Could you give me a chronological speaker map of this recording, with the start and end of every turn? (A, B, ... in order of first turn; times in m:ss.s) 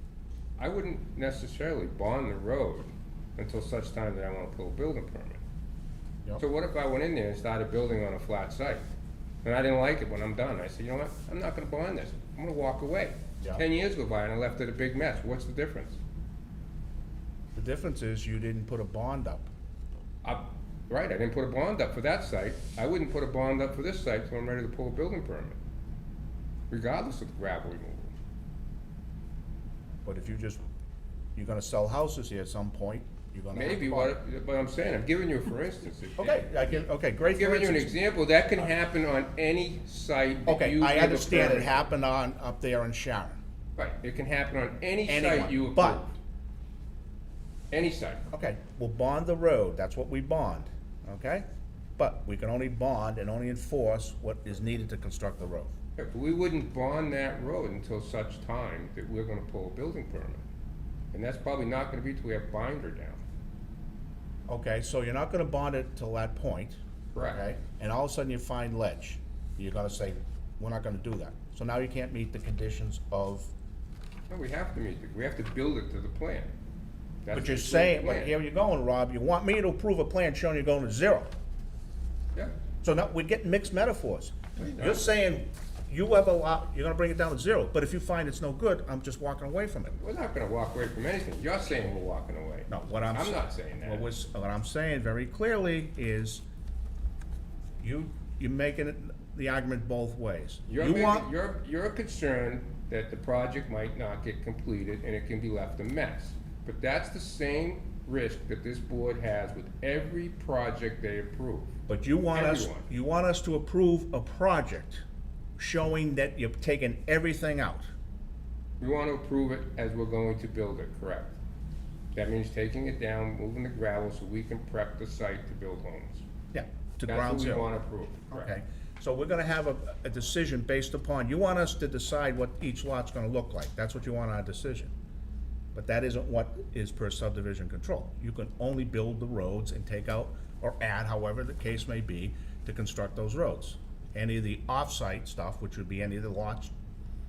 0:00.6-0:05.4 A
0:06.4-0:08.8 A
0:09.4-0:16.0 A
0:17.5-0:19.5 B
0:20.2-0:25.6 A
0:26.7-0:28.1 A
0:30.0-0:30.6 B
0:31.4-0:34.2 B
0:33.5-0:41.8 A
0:36.2-0:38.0 B
0:40.4-0:43.4 B
0:43.8-0:46.1 A
0:45.1-0:46.0 B
0:47.7-0:48.2 A
0:48.3-0:51.4 B
0:52.0-0:55.7 B
0:56.0-1:00.4 A
1:01.1-1:03.2 A
1:04.5-1:13.5 B
1:07.1-1:07.4 A
1:14.3-1:16.5 A
1:17.2-1:18.4 A
1:17.3-1:21.3 B
1:22.8-1:29.9 B
1:24.6-1:25.1 A
1:29.9-1:34.1 A
1:32.7-1:36.4 B
1:37.8-1:41.3 B
1:40.7-1:51.8 A
1:51.9-1:55.0 B
1:52.3-1:52.9 A
1:55.6-1:57.9 B
1:58.8-2:01.4 A
2:02.1-2:06.2 A
2:06.5-2:07.7 B
2:07.0-2:08.5 A
2:08.3-2:14.9 B
2:15.7-2:26.7 B